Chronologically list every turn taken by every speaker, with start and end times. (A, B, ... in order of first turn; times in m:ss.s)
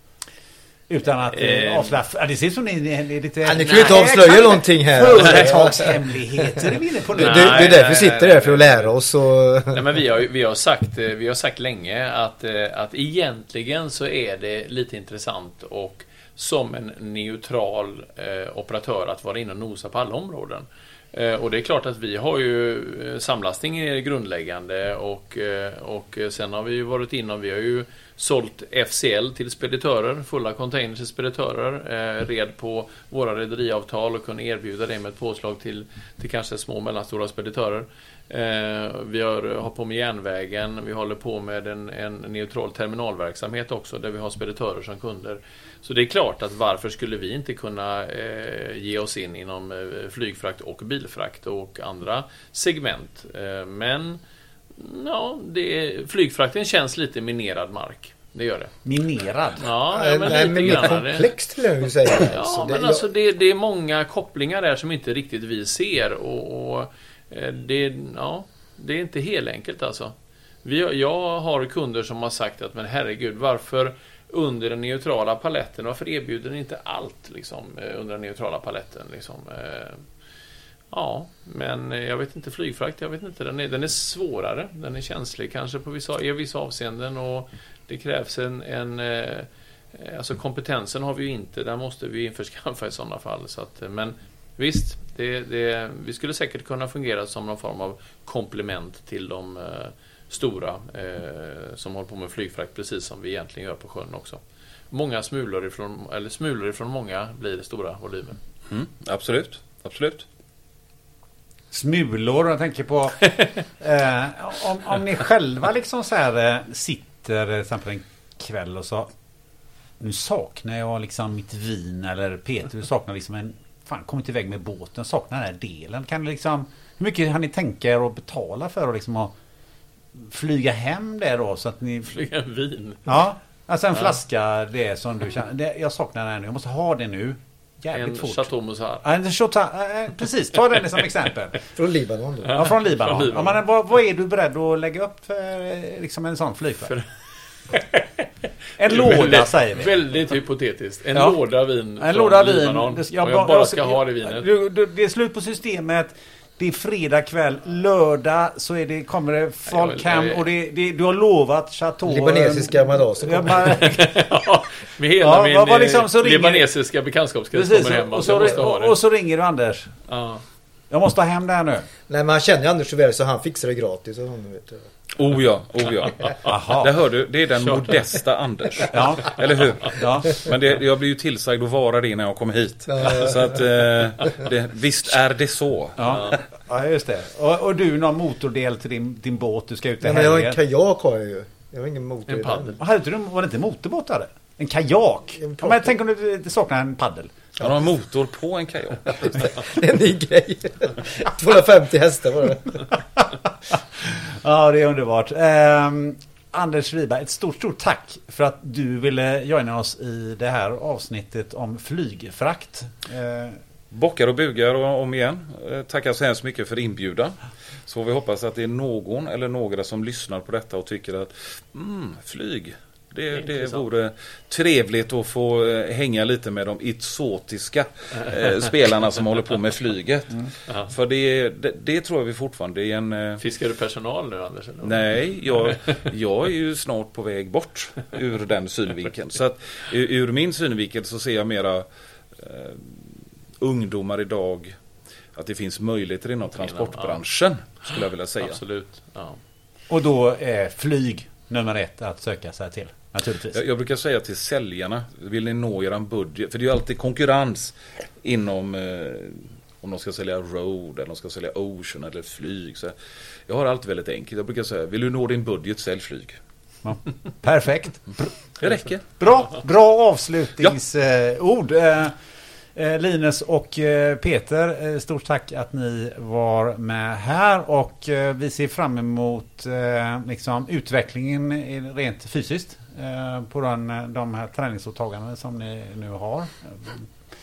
0:00.9-0:07.8 A
0:01.3-0:02.0 B
0:03.4-0:09.9 C
0:03.7-0:04.1 B
0:05.2-0:05.4 B
0:07.1-0:09.0 B
0:09.7-0:54.2 B
0:54.7-0:58.7 B
0:58.8-0:59.7 A
0:59.6-1:01.3 B
0:59.9-1:03.1 C
1:02.1-1:20.0 B
1:20.9-1:48.4 B
1:48.7-1:50.2 D
1:51.7-1:59.1 A
2:00.0-2:09.3 A
2:10.1-2:12.2 A
2:12.1-2:13.1 B
2:13.0-2:18.5 A
2:17.9-2:19.0 B
2:19.0-2:21.6 A
2:21.7-2:22.6 C
2:22.4-2:23.6 B
2:22.5-2:26.9 A
2:27.7-2:28.0 B
2:28.8-2:30.0 A
2:28.8-2:34.5 B
2:32.0-2:44.2 A
2:39.7-2:40.4 B
2:42.0-2:43.8 C
2:43.7-2:49.0 B
2:45.2-2:46.6 A
2:47.5-2:49.9 A
2:50.1-2:50.4 B
2:50.9-2:51.9 A
2:52.1-2:54.8 C
2:55.1-3:06.3 D
2:56.5-2:56.9 A
2:57.6-2:58.1 B
2:58.9-3:00.4 A
3:02.9-3:03.8 C
3:06.0-3:10.6 A
3:06.1-3:06.3 B
3:10.0-3:12.8 C
3:12.3-3:12.8 B
3:12.8-3:17.3 A
3:15.4-3:15.8 C
3:17.6-3:19.5 D
3:19.2-3:23.0 C
3:23.2-3:33.6 A
3:33.9-3:53.4 D
3:53.4-3:55.0 B
3:54.8-4:04.8 D
4:05.3-4:08.6 D
4:06.6-4:07.2 B
4:08.4-4:09.4 B
4:09.9-4:13.6 A
4:13.5-4:22.9 D
4:23.5-4:26.4 D
4:26.8-4:28.3 A
4:28.6-4:29.0 D
4:29.2-4:32.2 A
4:32.7-4:47.1 A